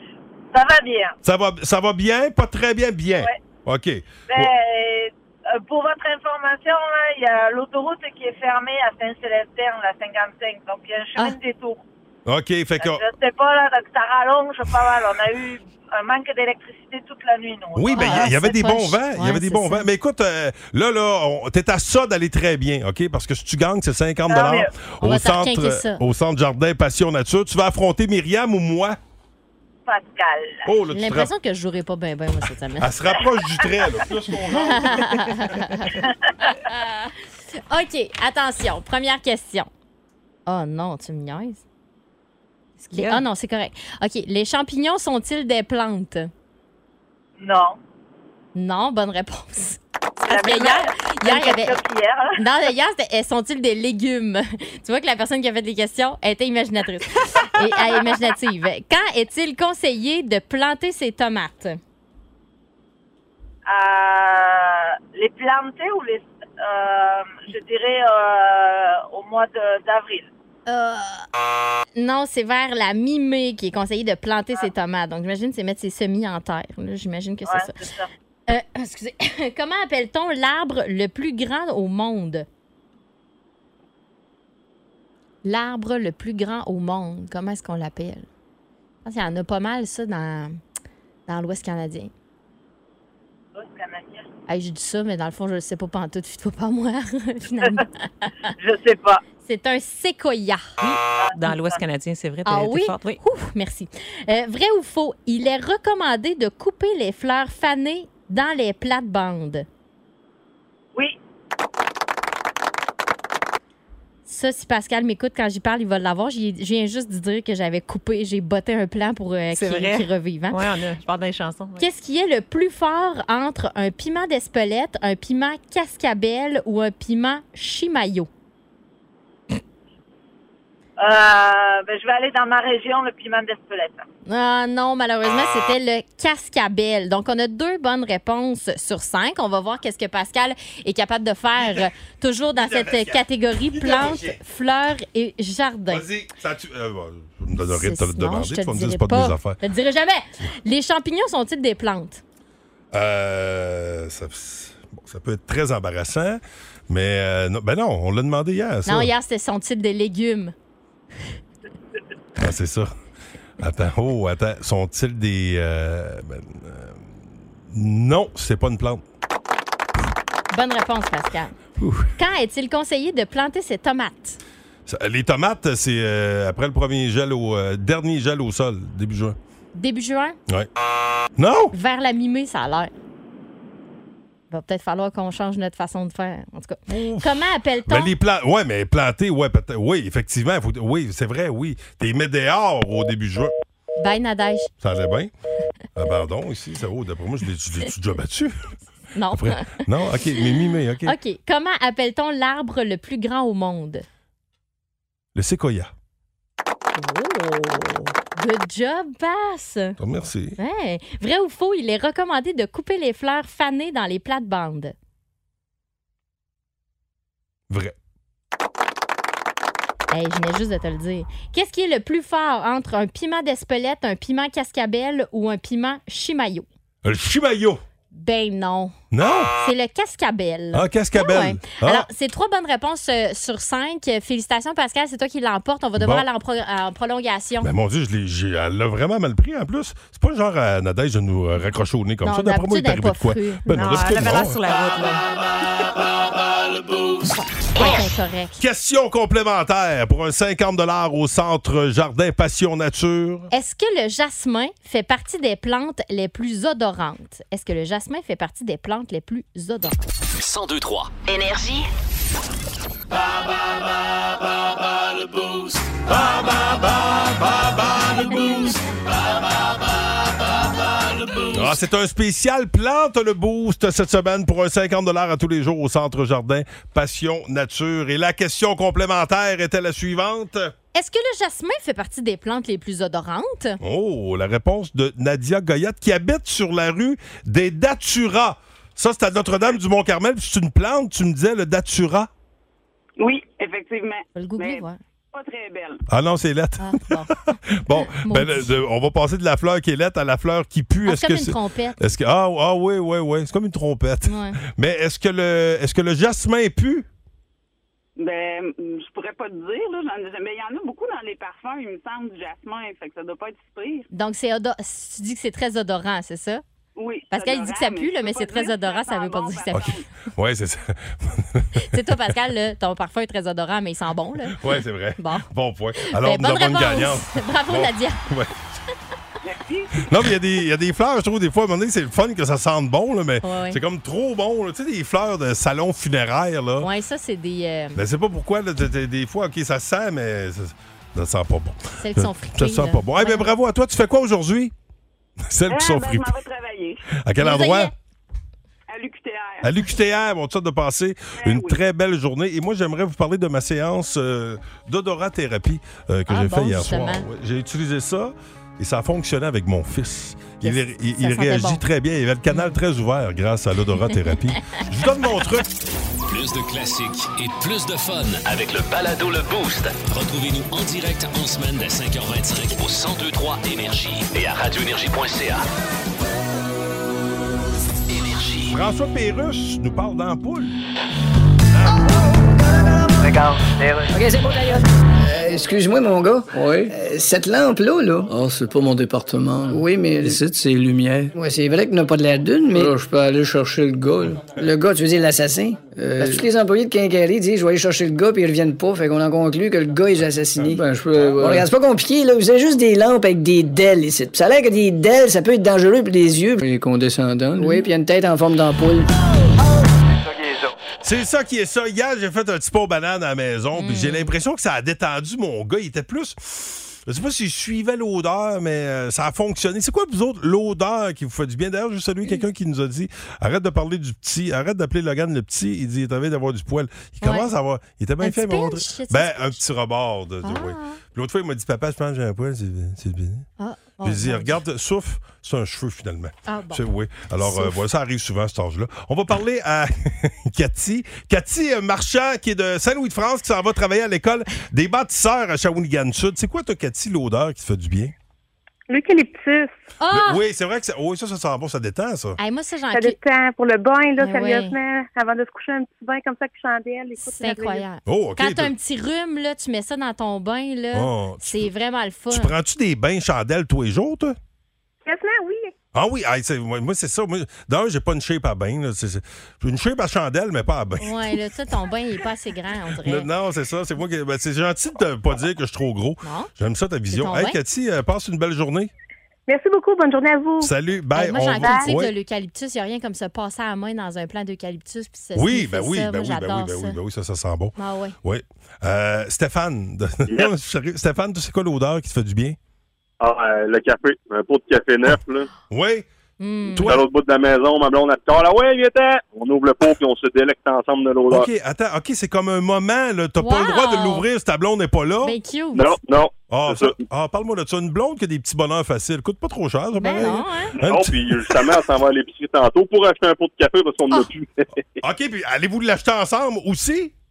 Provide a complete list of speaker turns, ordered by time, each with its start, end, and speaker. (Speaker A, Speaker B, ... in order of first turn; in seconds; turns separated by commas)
Speaker A: 0.5-1.1, Speaker B: 1.2-4.5, Speaker A: 4.3-11.8, Speaker B: 12.2-13.1, Speaker A: 12.8-18.3, Speaker B: 17.8-29.0, Speaker C: 17.9-19.9, Speaker A: 24.3-24.7, Speaker C: 25.0-26.0, Speaker A: 29.9-30.6, Speaker B: 30.6-31.3, Speaker C: 30.9-32.9, Speaker B: 32.8-35.5, Speaker C: 34.5-37.1, Speaker C: 37.7-39.7, Speaker C: 40.5-41.6, Speaker D: 42.8-43.2, Speaker C: 42.9-46.3, Speaker A: 47.4-47.8, Speaker C: 48.5-51.8, Speaker A: 50.2-52.3, Speaker D: 50.3-50.6, Speaker C: 52.4-61.8, Speaker A: 63.7-70.3, Speaker C: 70.7-71.3, Speaker C: 72.0-77.8, Speaker A: 77.5-78.1, Speaker C: 78.5-82.5, Speaker C: 85.4-88.3, Speaker C: 89.0-90.6, Speaker C: 91.3-92.1, Speaker A: 93.5-94.3, Speaker C: 94.5-98.3, Speaker A: 98.6-99.2, Speaker C: 99.4-100.7, Speaker D: 100.8-103.2, Speaker A: 101.2-101.8, Speaker C: 102.4-109.7, Speaker C: 114.2-120.7, Speaker D: 119.5-121.8, Speaker C: 121.8-128.3, Speaker A: 131.0-134.0, Speaker C: 134.2-146.0, Speaker B: 141.6-141.9, Speaker B: 142.6-144.4, Speaker B: 145.9-149.6, Speaker C: 147.7-152.2, Speaker B: 152.9-159.1, Speaker C: 158.8-160.5, Speaker B: 162.3-162.9, Speaker B: 163.6-169.0, Speaker C: 170.5-171.6, Speaker B: 171.8-172.1, Speaker C: 172.2-174.4, Speaker B: 174.8-179.4, Speaker C: 179.7-180.4, Speaker B: 181.4-181.7, Speaker C: 181.7-182.9, Speaker C: 184.5-188.1, Speaker B: 186.9-193.5, Speaker C: 194.0-194.7, Speaker B: 194.8-195.3, Speaker B: 195.9-198.6, Speaker C: 199.1-200.5, Speaker B: 199.3-201.2, Speaker C: 201.1-204.0, Speaker B: 205.3-205.9, Speaker C: 206.9-209.9, Speaker B: 210.0-210.6, Speaker C: 210.6-214.9, Speaker B: 217.7-218.0, Speaker C: 220.1-226.7, Speaker B: 227.0-227.8, Speaker C: 228.1-228.9, Speaker B: 229.1-229.5, Speaker C: 229.5-237.7, Speaker B: 230.7-232.1, Speaker B: 236.0-236.3, Speaker B: 237.6-244.6, Speaker C: 242.2-244.4, Speaker D: 243.6-245.3, Speaker C: 247.7-248.6, Speaker B: 248.6-253.5, Speaker C: 253.5-260.0, Speaker E: 260.4-261.9, Speaker B: 271.5-280.7, Speaker C: 280.9-283.8, Speaker B: 283.8-292.3, Speaker F: 293.2-296.0, Speaker C: 294.3-295.0, Speaker B: 296.1-307.1, Speaker C: 296.8-297.3, Speaker C: 298.0-298.7, Speaker C: 301.1-301.9, Speaker C: 304.2-304.6, Speaker F: 308.2-314.1, Speaker C: 314.1-316.6, Speaker F: 316.9-320.0, Speaker C: 317.3-319.9, Speaker B: 319.7-322.3, Speaker C: 321.8-324.7, Speaker B: 324.6-328.5, Speaker C: 325.2-325.5, Speaker C: 326.0-328.3, Speaker F: 329.4-330.1, Speaker B: 330.0-336.9, Speaker C: 333.4-333.8, Speaker C: 336.8-338.0, Speaker B: 337.9-344.7, Speaker C: 342.0-343.5, Speaker B: 345.4-346.3, Speaker F: 345.7-347.0, Speaker B: 347.2-347.9, Speaker C: 347.4-347.9, Speaker F: 348.9-349.8, Speaker B: 349.6-365.7, Speaker F: 351.4-351.8, Speaker C: 356.3-357.2, Speaker C: 360.6-361.8, Speaker C: 362.5-362.8, Speaker C: 364.1-364.3, Speaker E: 366.3-375.6, Speaker E: 378.1-378.8, Speaker B: 378.7-380.8, Speaker B: 381.8-382.0, Speaker G: 384.1-388.3, Speaker H: 386.5-386.9, Speaker H: 388.3-391.3, Speaker G: 389.7-390.4, Speaker G: 391.3-392.9, Speaker H: 392.7-394.6, Speaker G: 394.5-406.6, Speaker H: 395.9-396.5, Speaker H: 400.6-401.7, Speaker H: 406.6-407.9, Speaker G: 407.6-409.1, Speaker B: 411.0-433.5, Speaker C: 413.8-414.3, Speaker C: 427.2-427.5, Speaker C: 428.2-429.6, Speaker C: 430.4-431.0, Speaker C: 433.6-434.6, Speaker B: 434.0-448.1, Speaker C: 436.5-436.8, Speaker C: 437.4-437.8, Speaker I: 448.9-449.7, Speaker C: 450.0-450.4, Speaker B: 450.1-452.4, Speaker C: 452.4-453.2, Speaker I: 452.9-457.8, Speaker C: 454.2-454.8, Speaker C: 457.2-462.5, Speaker B: 458.1-458.7, Speaker B: 460.9-461.7, Speaker B: 462.3-464.4, Speaker I: 465.1-465.6, Speaker B: 465.9-471.3, Speaker C: 471.0-473.3, Speaker B: 473.0-478.9, Speaker C: 476.2-476.5, Speaker C: 477.1-477.6, Speaker I: 479.5-480.7, Speaker B: 480.6-482.1, Speaker C: 481.1-487.0, Speaker I: 481.6-481.9, Speaker B: 485.3-492.6, Speaker C: 487.8-488.2, Speaker J: 493.2-495.5, Speaker B: 495.7-496.1, Speaker C: 496.4-497.0, Speaker B: 496.7-497.1, Speaker J: 496.8-501.5, Speaker B: 501.3-505.4, Speaker C: 503.4-504.2, Speaker C: 505.2-505.9, Speaker J: 505.7-507.0, Speaker B: 506.5-511.6, Speaker C: 510.0-510.7, Speaker J: 510.8-514.6, Speaker B: 515.0-517.1